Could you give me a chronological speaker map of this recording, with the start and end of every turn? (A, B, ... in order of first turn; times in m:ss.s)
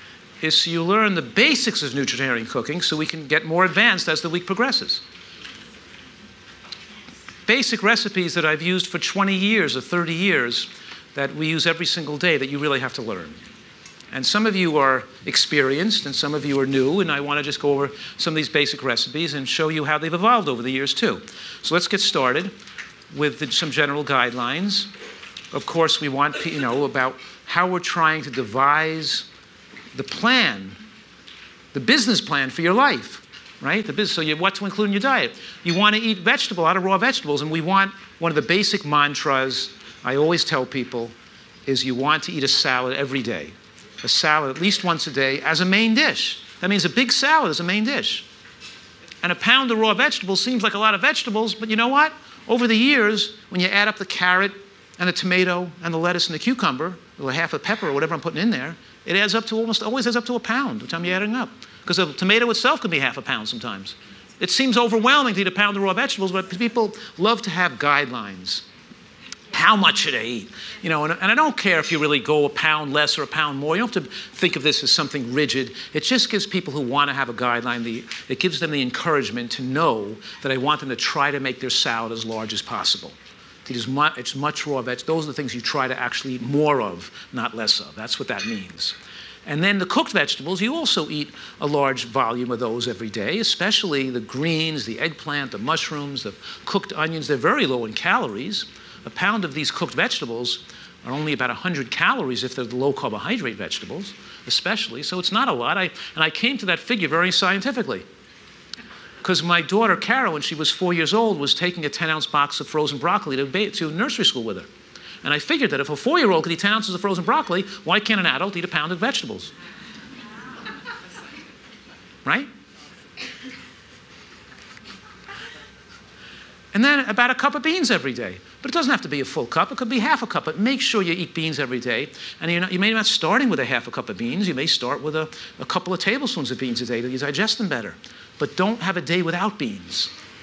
0:00.4-0:05.0 A
0:07.5-0:13.4 A
0:14.1-0:22.5 A
0:23.1-0:24.9 A
0:25.5-0:29.3 A
0:29.9-0:30.8 A
0:31.7-0:41.1 A
0:41.7-0:48.3 A
0:49.2-1:08.6 A
1:09.5-1:48.0 A
1:49.2-1:54.7 A
1:55.2-1:59.5 A
2:06.7-2:20.1 A